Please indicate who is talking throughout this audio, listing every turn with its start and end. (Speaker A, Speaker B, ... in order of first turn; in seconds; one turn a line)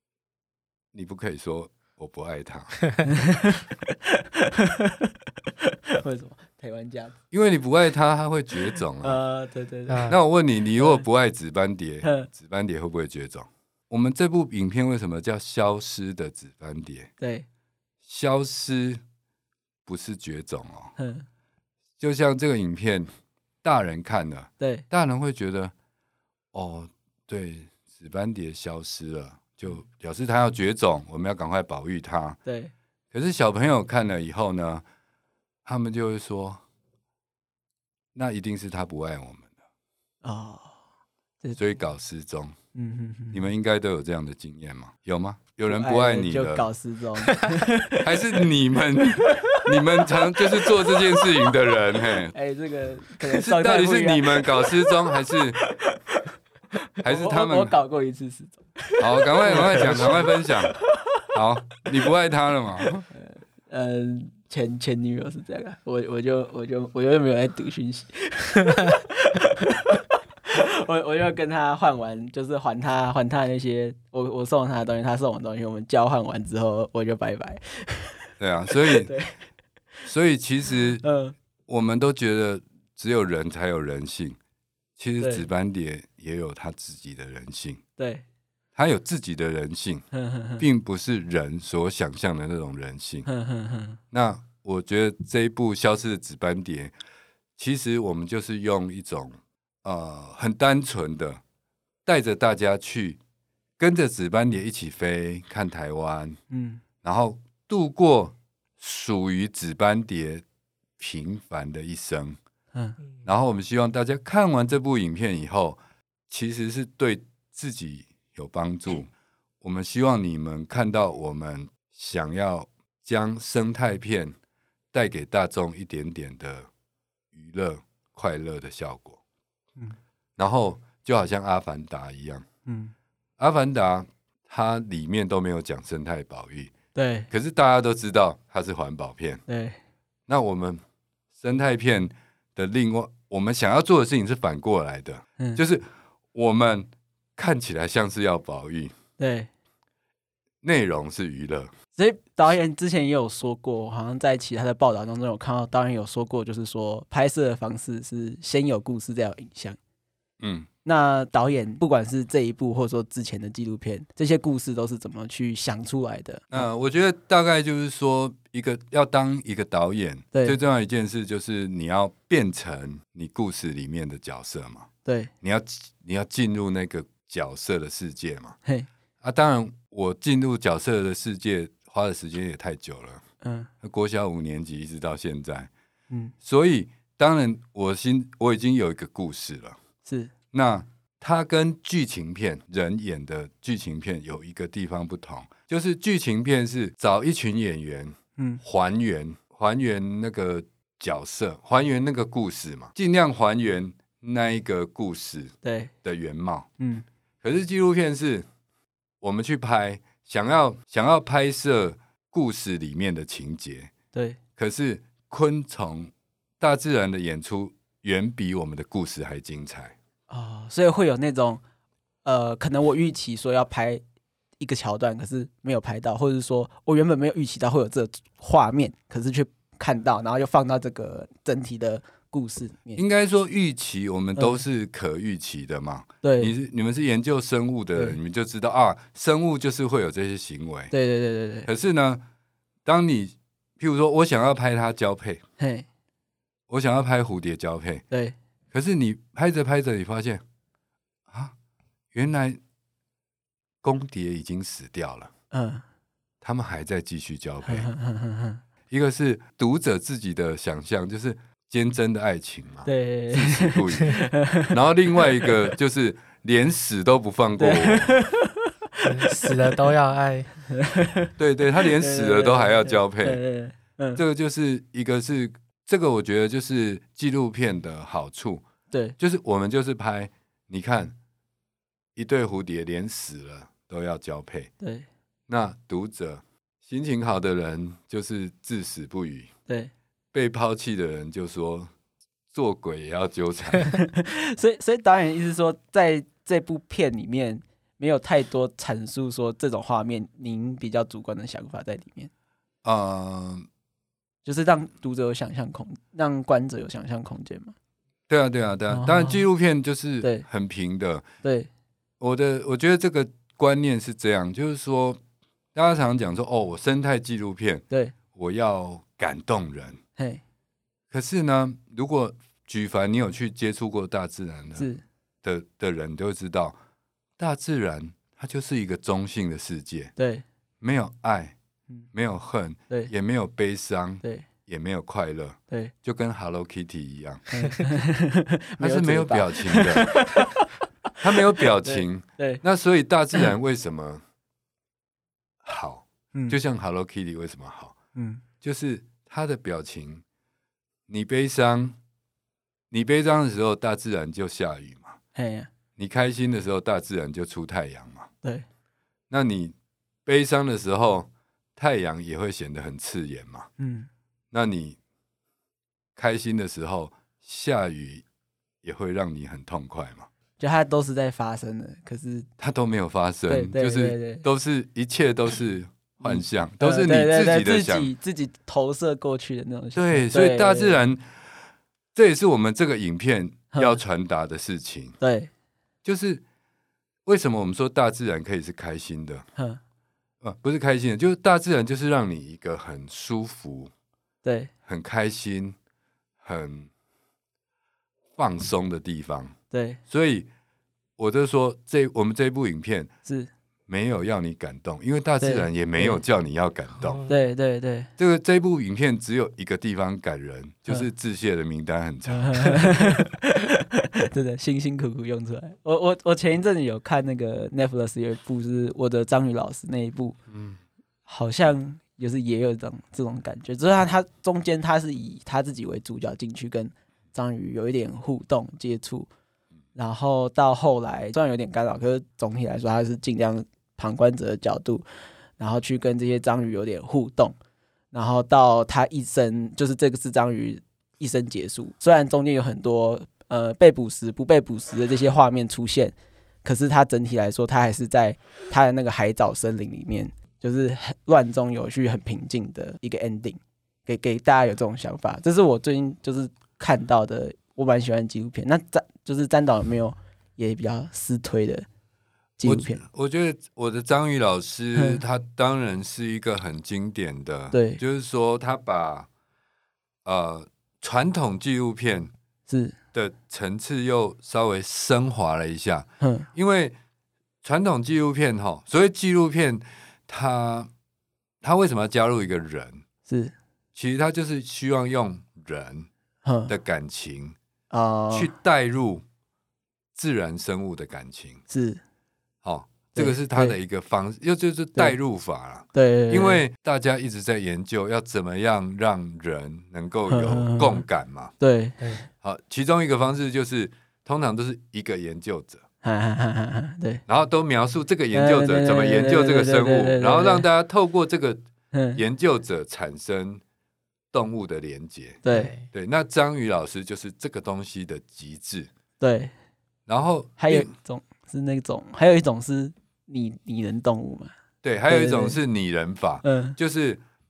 Speaker A: 0.9-2.8
Speaker B: 3.0-7.2
Speaker A: 7.3-9.2
Speaker B: 9.0-10.2
Speaker C: 9.9-10.2
Speaker A: 10.1-17.1
Speaker B: 12.0-12.3
Speaker B: 17.2-17.5
Speaker A: 18.0-19.0
Speaker A: 19.9-20.9
Speaker B: 21.0-21.3
Speaker A: 22.0-23.1
Speaker A: 23.6-25.7
Speaker B: 24.6-24.9
Speaker A: 26.5-32.4
Speaker B: 32.5-32.7
Speaker A: 33.1-34.8
Speaker A: 35.6-36.6
Speaker A: 38.1-39.5
Speaker B: 40.2-40.8
Speaker A: 41.6-42.6
Speaker B: 42.8-43.5
Speaker A: 43.3-46.7
Speaker B: 45.7-48.5
Speaker A: 48.0-52.3
Speaker B: 49.2-51.3
Speaker B: 52.3-56.0
Speaker A: 53.2-55.6
Speaker B: 56.9-61.2
Speaker A: 57.0-57.8
Speaker A: 59.0-60.8
Speaker A: 61.3-63.1
Speaker B: 63.1-79.4
Speaker A: 78.4-79.1
Speaker A: 80.1-81.0
Speaker B: 81.0-81.4
Speaker A: 81.7-84.4
Speaker A: 85.0-87.8
Speaker B: 85.2-85.5
Speaker B: 88.0-88.2
Speaker A: 88.8-90.1
Speaker B: 90.1-90.7
Speaker A: 90.6-93.3
Speaker B: 93.3-94.0
Speaker A: 94.1-96.9
Speaker A: 97.6-101.4
Speaker A: 102.1-103.2
Speaker A: 103.8-106.4
Speaker B: 106.5-106.8
Speaker A: 107.0-110.4
Speaker A: 111.0-112.4
Speaker A: 113.2-119.1
Speaker A: 119.6-124.3
Speaker A: 124.9-126.7
Speaker A: 127.3-129.2
Speaker A: 130.4-132.5
Speaker B: 132.7-132.9
Speaker A: 133.4-136.7
Speaker B: 136.9-137.3
Speaker A: 137.3-139.4
Speaker B: 139.5-139.8
Speaker A: 140.3-140.8
Speaker A: 141.4-148.9
Speaker B: 149.2-149.5
Speaker A: 150.6-151.7
Speaker B: 152.0-159.8
Speaker A: 160.4-160.7
Speaker B: 160.8-166.7
Speaker A: 166.5-174.9
Speaker B: 175.1-175.3
Speaker A: 175.4-178.6
Speaker A: 179.2-183.2
Speaker B: 183.4-183.7
Speaker A: 183.8-185.7
Speaker A: 186.4-189.8
Speaker B: 190.1-190.3
Speaker A: 190.5-206.7
Speaker B: 198.4-198.6
Speaker B: 205.6-205.9
Speaker B: 206.8-207.1
Speaker A: 207.4-208.5
Speaker A: 209.2-213.9
Speaker B: 214.1-214.4
Speaker A: 214.6-219.9
Speaker B: 220.3-221.6
Speaker B: 222.2-224.0
Speaker B: 224.6-233.0
Speaker A: 233.0-240.9
Speaker B: 234.4-234.6
Speaker B: 236.2-236.5
Speaker B: 240.9-241.7
Speaker A: 241.7-242.2
Speaker A: 242.8-245.4
Speaker B: 245.6-245.9
Speaker A: 246.7-248.0
Speaker A: 248.7-250.4
Speaker A: 251.3-251.5
Speaker A: 252.1-252.6
Speaker A: 253.8-255.3
Speaker B: 255.5-255.8
Speaker A: 256.4-257.9
Speaker B: 257.6-258.6
Speaker A: 258.9-268.2
Speaker B: 262.9-265.5
Speaker B: 267.6-269.5
Speaker C: 269.0-270.5
Speaker B: 270.7-274.2
Speaker A: 271.4-273.4
Speaker A: 274.2-278.6
Speaker B: 278.9-279.2
Speaker A: 279.2-281.1
Speaker A: 282.2-284.7
Speaker B: 284.8-285.1
Speaker A: 285.5-289.5
Speaker A: 290.3-291.9
Speaker A: 292.5-294.0
Speaker B: 293.9-302.3
Speaker A: 302.8-303.7
Speaker B: 304.4-307.8
Speaker A: 308.3-311.3
Speaker B: 308.9-309.4
Speaker B: 311.4-311.7
Speaker A: 312.2-315.2
Speaker A: 315.8-320.0
Speaker B: 317.9-318.1
Speaker B: 320.2-320.4
Speaker A: 321.1-324.9
Speaker B: 324.8-325.0
Speaker A: 325.4-326.8
Speaker A: 327.4-330.1
Speaker B: 330.2-330.4
Speaker A: 330.8-331.6
Speaker A: 332.1-337.4
Speaker B: 337.5-340.7
Speaker A: 338.8-340.3
Speaker A: 341.2-344.2
Speaker B: 341.6-342.6
Speaker A: 345.6-347.9
Speaker B: 348.1-348.4
Speaker A: 348.6-350.2
Speaker A: 351.1-352.0
Speaker A: 352.9-355.2
Speaker B: 355.4-355.7
Speaker A: 356.0-358.3
Speaker A: 359.3-359.8
Speaker A: 360.3-363.7
Speaker B: 363.8-364.1
Speaker A: 364.5-365.0
Speaker A: 366.2-368.2
Speaker A: 368.8-370.3
Speaker B: 370.6-372.5
Speaker A: 372.6-378.1
Speaker B: 373.5-374.4
Speaker B: 376.2-381.0
Speaker A: 379.9-381.2
Speaker A: 382.1-385.2
Speaker B: 383.7-384.0
Speaker B: 385.2-385.5
Speaker A: 386.0-386.4
Speaker A: 387.3-389.4
Speaker A: 390.4-393.9
Speaker B: 394.4-394.7
Speaker A: 394.9-395.8
Speaker A: 396.4-396.9
Speaker A: 398.4-399.6
Speaker B: 399.7-400.0
Speaker A: 400.1-400.5
Speaker A: 401.2-403.1
Speaker B: 403.3-403.5
Speaker A: 403.9-407.2
Speaker B: 405.4-406.2
Speaker C: 407.0-407.4
Speaker B: 407.3-408.1
Speaker A: 408.2-412.9
Speaker B: 412.3-420.4
Speaker A: 420.5-420.8
Speaker B: 421.3-429.3
Speaker B: 429.9-435.0
Speaker B: 435.6-437.6
Speaker B: 438.1-461.9
Speaker B: 462.6-463.0
Speaker A: 462.6-469.3
Speaker B: 464.9-465.2
Speaker B: 467.7-468.0
Speaker A: 470.2-472.3
Speaker B: 472.7-473.0
Speaker A: 473.1-476.9
Speaker B: 476.2-476.5
Speaker A: 477.6-480.9
Speaker A: 481.6-483.0
Speaker B: 483.3-483.5
Speaker A: 483.9-486.1
Speaker B: 486.4-486.7
Speaker A: 486.7-487.6
Speaker B: 487.9-488.5
Speaker A: 488.3-489.2
Speaker A: 490.1-491.6
Speaker B: 491.7-492.0
Speaker A: 492.6-501.5
Speaker B: 493.1-493.8
Speaker B: 495.9-496.6
Speaker B: 500.3-501.0
Speaker B: 501.6-502.0
Speaker A: 502.4-505.8
Speaker B: 506.0-507.2
Speaker A: 507.3-511.6
Speaker B: 508.3-510.7
Speaker B: 511.9-512.2
Speaker A: 512.1-513.6
Speaker A: 514.3-518.9
Speaker B: 515.5-515.7
Speaker C: 515.5-515.9
Speaker B: 519.2-519.5
Speaker A: 520.1-520.9
Speaker B: 520.6-524.5
Speaker A: 524.8-527.2
Speaker B: 525.1-525.6
Speaker B: 526.4-526.8